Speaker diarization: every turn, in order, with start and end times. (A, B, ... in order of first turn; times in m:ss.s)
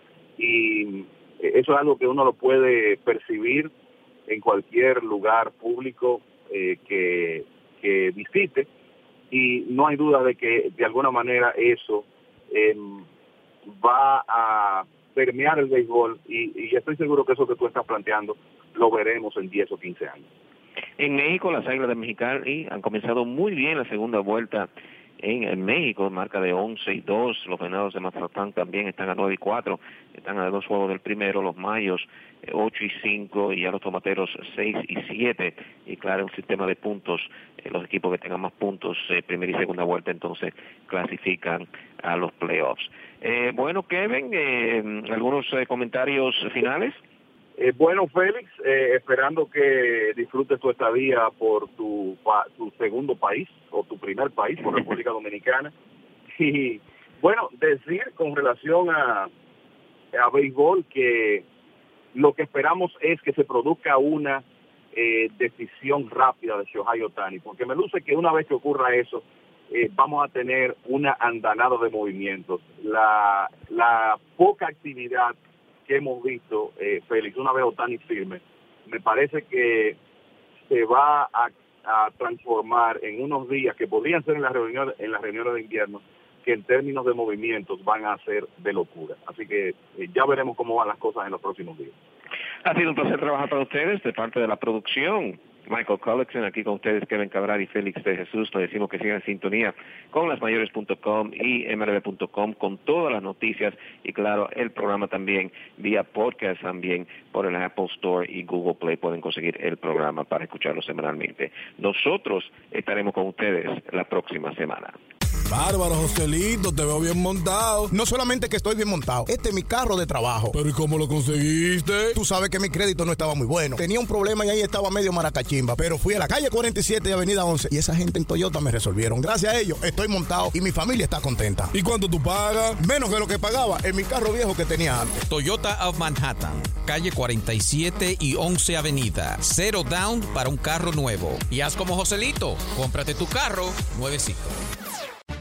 0:00.4-0:03.7 A
0:04.3-0:08.7 A
0:09.3-0:13.1 A
0:13.7-0:20.3 A
0:21.0-0:47.0 B
0:47.6-0:55.7 A
0:56.4-0:59.3 A
1:00.1-1:01.4 A
1:02.1-1:15.4 A
1:15.9-1:20.0 A
1:20.7-1:31.9 A
1:32.6-1:55.0 B
1:55.5-1:57.9 C
1:57.9-2:00.6 D
2:00.5-2:02.2 C
2:02.1-2:11.7 D
2:11.7-2:12.8 C
2:12.8-2:15.2 D
2:15.2-2:24.6 E